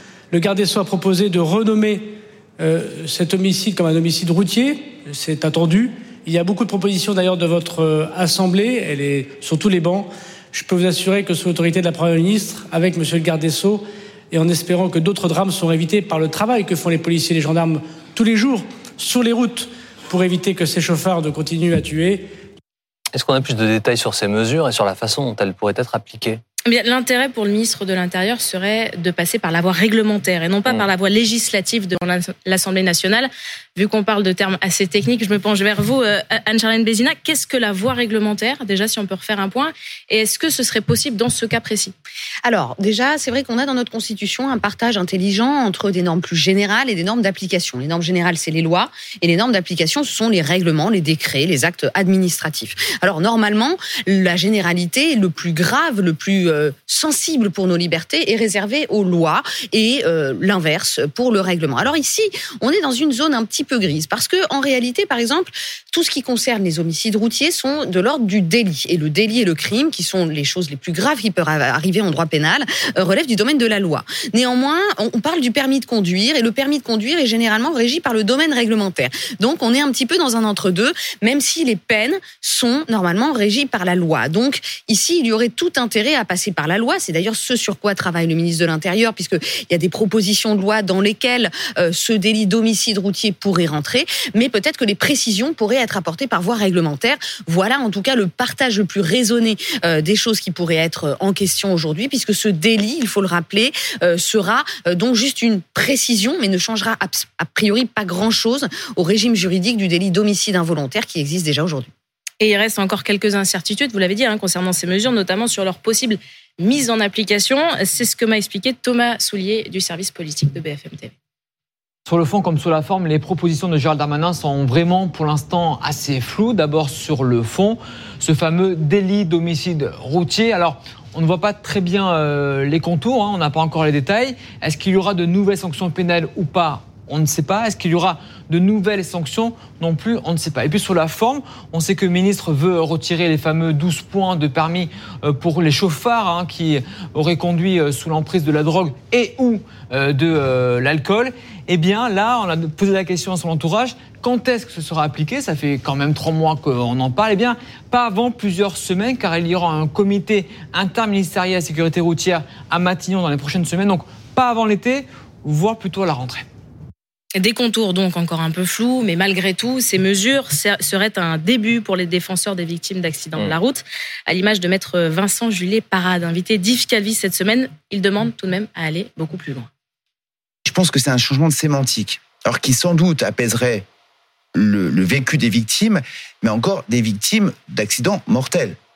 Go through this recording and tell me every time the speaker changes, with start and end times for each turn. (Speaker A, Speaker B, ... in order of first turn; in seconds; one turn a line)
Speaker A: 0.3-22.3
Speaker B: 23.1-26.4
Speaker C: 26.7-41.9
Speaker D: 42.4-111.9
Speaker C: 112.4-121.1
Speaker E: 122.1-166.5
Speaker C: 167.3-179.7
Speaker F: 180.7-183.8
Speaker F: 184.5-188.8